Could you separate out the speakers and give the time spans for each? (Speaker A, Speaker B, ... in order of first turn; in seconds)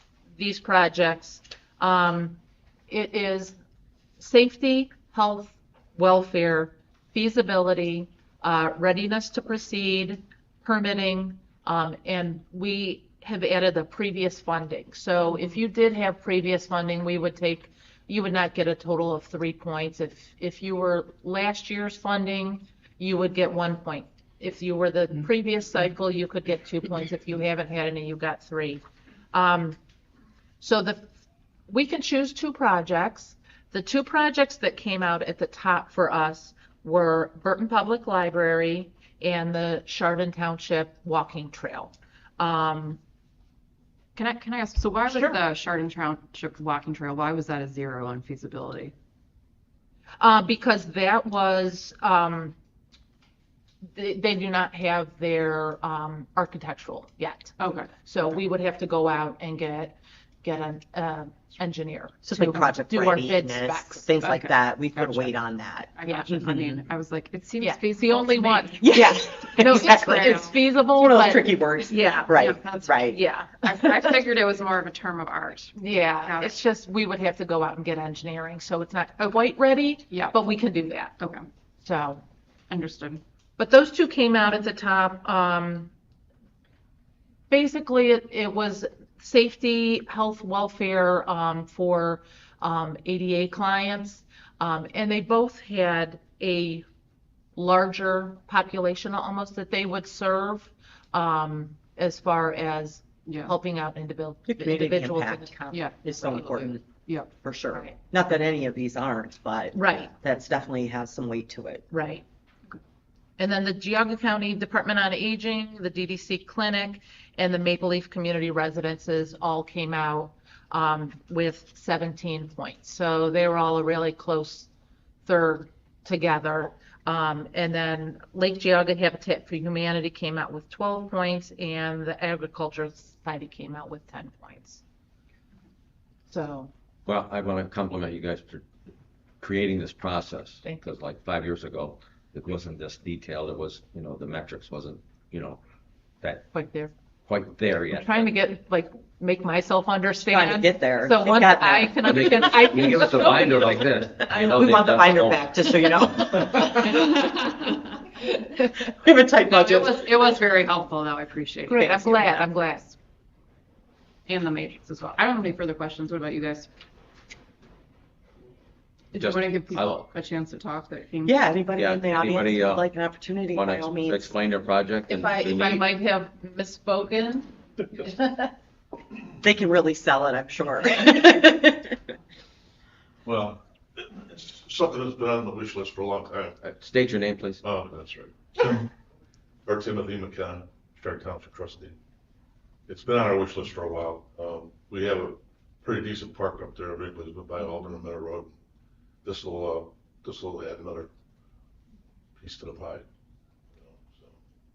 Speaker A: 0.3-3.6, 4.2-28.8, 29.3-29.8, 30.6-31.1, 31.7-43.0, 45.1-45.4, 50.2-52.6, 54.0-64.1, 66.0-66.3, 67.6-72.3, 73.0-73.9, 75.8-81.2, 81.8-82.2, 83.6-85.9, 87.5-96.8, 97.6-106.7, 109.7-110.1, 111.9-112.2, 113.4-124.7, 125.2-134.8, 136.3-136.7, 140.6-140.9, 146.5-146.9, 147.9-153.8, 161.7-162.9, 175.1-178.5
Speaker B: 44.2-48.9, 57.6-57.9, 64.2-65.4, 66.0-70.6, 72.3-76.6, 81.2-81.5, 82.7-83.2, 103.3-103.5, 105.7-107.3, 159.5-162.9, 164.3-166.7, 169.1-171.4
Speaker C: 62.3-66.8, 68.8-73.2, 104.5-105.5, 106.0-106.8, 107.4-111.8, 150.3-157.4, 158.9-160.1, 171.2-174.3, 179.4-182.0
Speaker D: 137.1-138.7, 139.4-145.6, 146.2-146.5, 147.3-148.3, 152.1-155.8, 169.1-170.1, 171.7-172.9, 173.5-175.9, 186.6-187.6
Speaker E: 183.2-186.6, 187.6-188.9, 189.7-192.0, 192.9-198.5, 199.2-201.1, 202.4-203.1, 203.7-204.4